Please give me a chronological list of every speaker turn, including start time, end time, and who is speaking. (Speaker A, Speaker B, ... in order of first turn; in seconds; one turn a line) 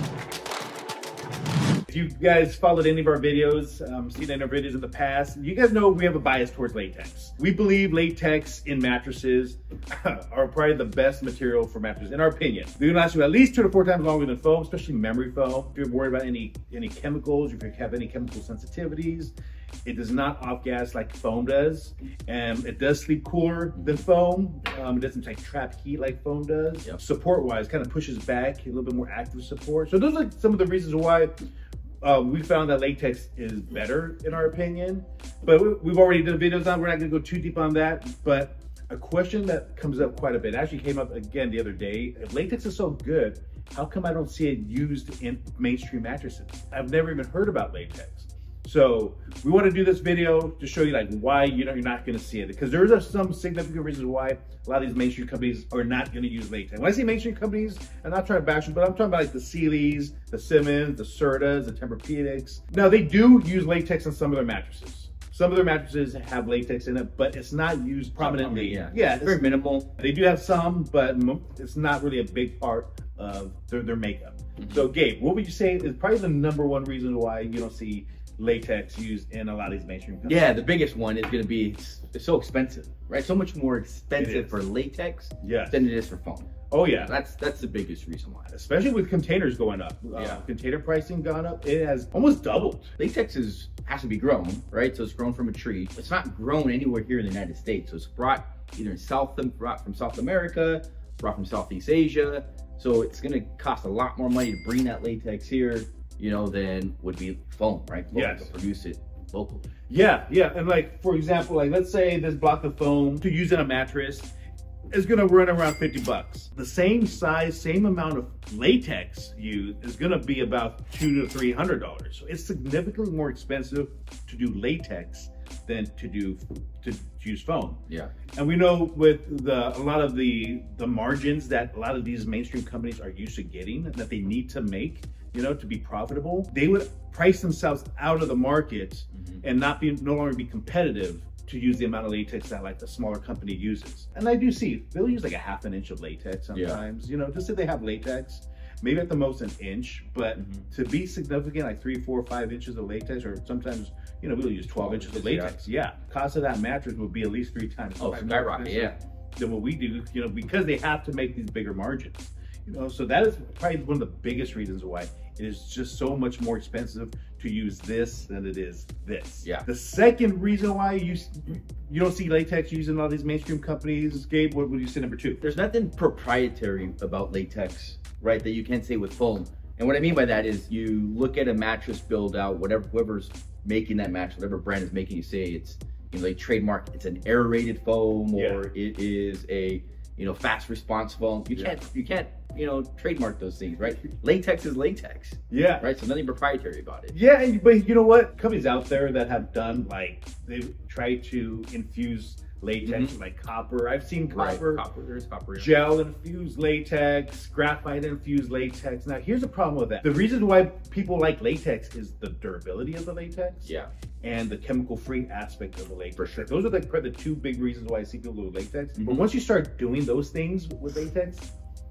Speaker A: 1.9-19.3
Speaker A: 19.8-31.3
Speaker A: 32.0-69.4
Speaker B: 68.2-69.9
Speaker A: 69.9-80.5
Speaker B: 74.6-74.9
Speaker B: 80.2-88.5
Speaker A: 84.2-84.6
Speaker A: 85.4-85.9
Speaker A: 86.7-87.1
Speaker A: 88.5-92.9
Speaker B: 90.1-90.5
Speaker B: 93.0-109.6
Speaker A: 108.1-108.5
Speaker A: 109.9-114.3
Speaker A: 114.9-127.8
Speaker B: 127.9-128.1
Speaker A: 128.3-175.4
Speaker B: 139.1-139.4
Speaker B: 146.5-146.8
Speaker B: 150.4-150.7
Speaker B: 154.8-155.7
Speaker B: 158.0-158.9
Speaker B: 175.4-197.1
Speaker A: 188.3-188.6
Speaker A: 195.5-195.9
Speaker A: 197.1-204.8
Speaker B: 202.8-203.1
Speaker B: 204.3-205.8
Speaker A: 205.6-221.5
Speaker B: 213.6-213.9
Speaker B: 216.2-216.5
Speaker B: 218.9-219.2